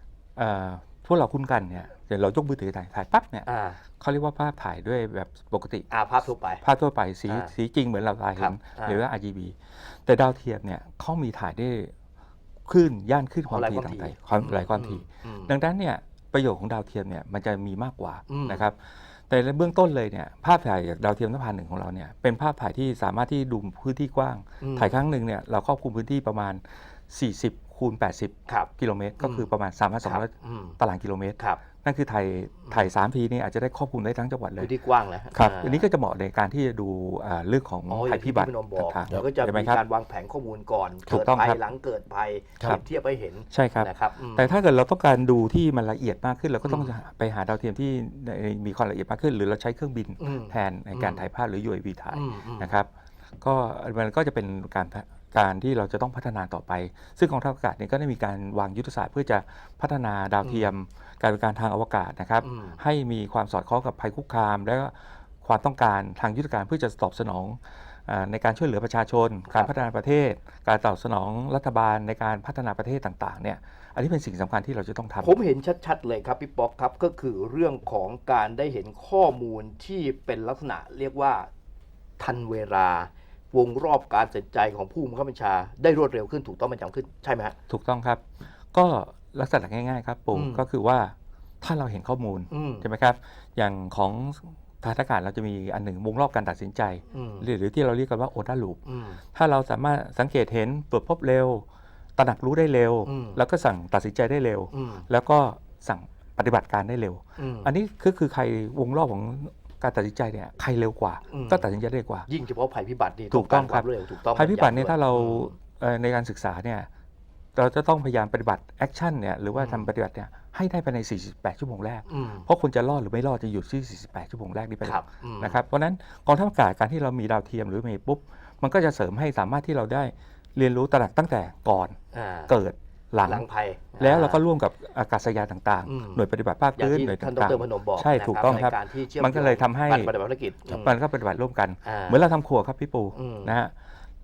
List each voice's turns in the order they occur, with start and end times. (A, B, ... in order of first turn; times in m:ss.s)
0:00.4-0:03.5 A
0:03.4-0:03.8 B
0:04.0-0:05.9 A
0:05.9-0:06.6 B
0:06.6-0:11.9 A
0:08.4-0:09.0 B
0:12.6-0:34.7 A
0:13.5-0:15.5 B
0:18.3-0:18.6 B
0:24.6-0:24.9 B
0:29.2-0:29.4 B
0:30.0-0:30.8 B
0:34.6-0:35.8 B
0:35.3-0:39.8 A
0:37.9-0:44.5 B
0:41.1-0:41.6 A
0:43.5-0:52.9 A
0:46.6-0:46.9 B
0:50.2-0:51.2 B
0:52.1-0:52.7 B
0:53.4-1:15.3 A
1:00.4-1:00.7 B
1:02.4-1:02.8 B
1:15.2-1:21.5 B
1:22.2-1:27.5 B
1:27.7-1:28.2 A
1:28.7-1:38.8 A
1:30.3-1:30.6 B
1:32.5-1:32.8 B
1:37.1-1:37.4 B
1:38.8-1:39.2 B
1:39.3-1:41.6 A
1:42.2-1:52.3 A
1:43.0-1:43.4 B
1:44.7-1:45.0 B
1:47.4-1:47.7 B
1:51.3-1:51.6 B
1:52.3-1:55.5 B
1:53.3-1:56.9 A
1:57.6-2:12.0 A
1:59.6-1:59.9 B
2:02.1-2:02.4 B
2:04.8-2:05.6 B
2:12.1-2:12.5 B
2:12.5-2:13.4 A
2:13.2-2:14.4 B
2:14.0-2:20.1 A
2:15.8-2:16.2 B
2:16.8-2:20.9 B
2:20.7-2:23.7 A
2:21.8-2:22.2 B
2:23.1-2:23.5 B